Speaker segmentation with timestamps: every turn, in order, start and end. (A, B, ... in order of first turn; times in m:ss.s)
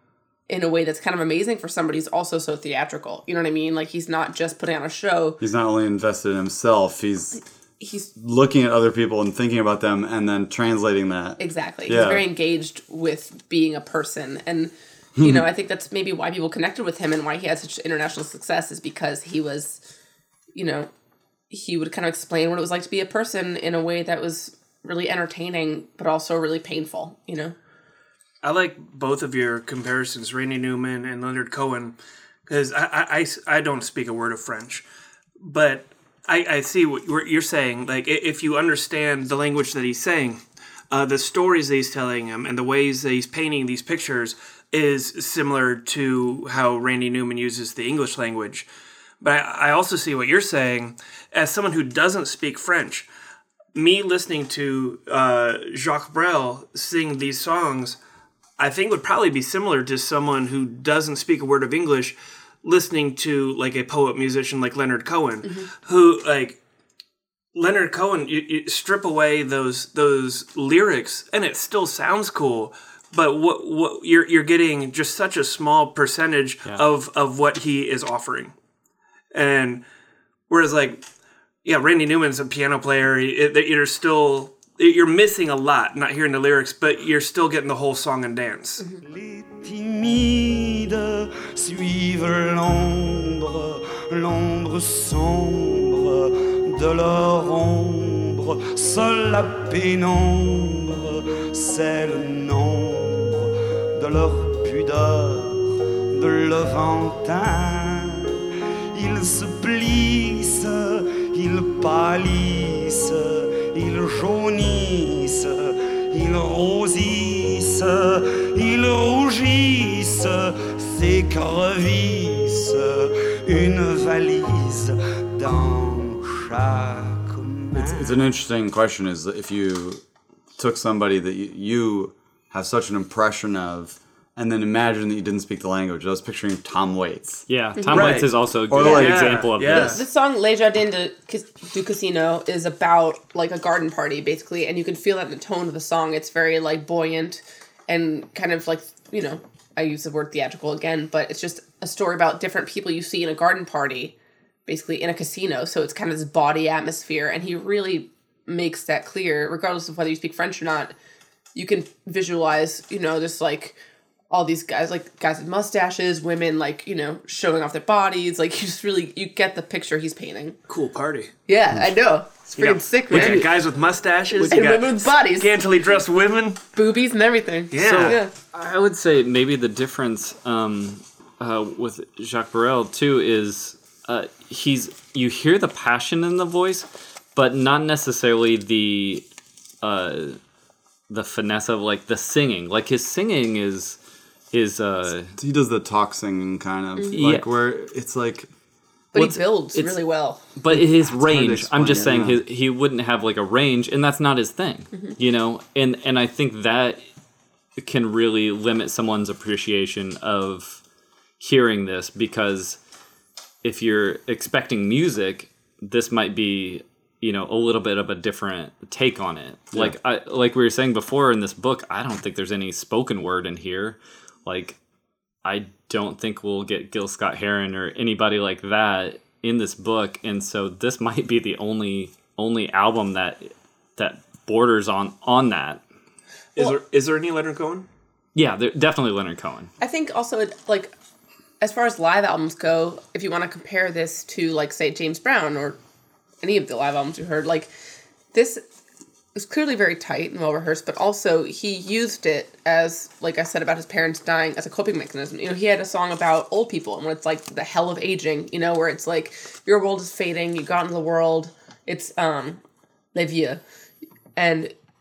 0:00.5-0:05.4 A
0:05.4-0:07.4 B
0:07.8-0:08.1 A
0:08.1-0:12.2 B
0:11.4-0:19.8 A
0:15.2-0:15.5 B
0:20.5-0:20.9 A
0:21.5-0:27.6 A
0:28.4-0:31.9 C
0:32.4-0:34.8 C
0:35.4-0:48.7 C
0:49.2-0:53.1 C
0:53.7-0:58.0 C
0:58.6-1:06.6 C
1:07.5-1:18.5 C
1:19.3-1:19.8 C
1:20.5-1:21.0 C
1:21.6-1:28.9 C
1:29.0-1:48.4 D
1:48.9-2:08.2 D
2:07.7-2:10.0 B
2:10.6-2:17.4 B
2:17.5-2:20.0 E
2:17.8-2:18.1 A
2:17.9-2:20.0 C
2:18.7-2:19.4 B
2:19.7-2:34.1 A
2:34.7-2:40.9 A
2:41.5-2:43.8 A
2:44.3-2:50.6 A
2:50.7-2:51.3 C
2:51.5-2:53.5 A
2:52.6-2:56.6 C
2:53.1-2:53.5 E
2:54.3-2:55.5 A
2:56.7-2:58.3 A
2:57.7-2:58.2 C
2:57.8-3:09.2 E
3:09.8-3:10.4 E
3:11.1-3:14.0 E
3:14.5-3:15.4 E
3:15.4-3:18.5 B
3:17.0-3:17.2 A
3:17.1-3:17.5 E
3:19.1-3:20.4 A
3:19.1-3:27.0 E
3:20.7-3:22.4 B
3:27.8-3:30.8 E
3:31.4-3:32.8 E
3:33.6-3:44.8 E
3:45.4-3:55.8 E
3:56.6-3:57.9 C
3:58.3-3:59.7 E
3:59.8-4:00.9 A
4:01.6-4:05.8 A
4:06.4-4:07.7 A
4:08.3-4:08.6 A
4:09.3-4:22.6 A
4:23.1-4:23.6 A
4:24.4-4:24.7 A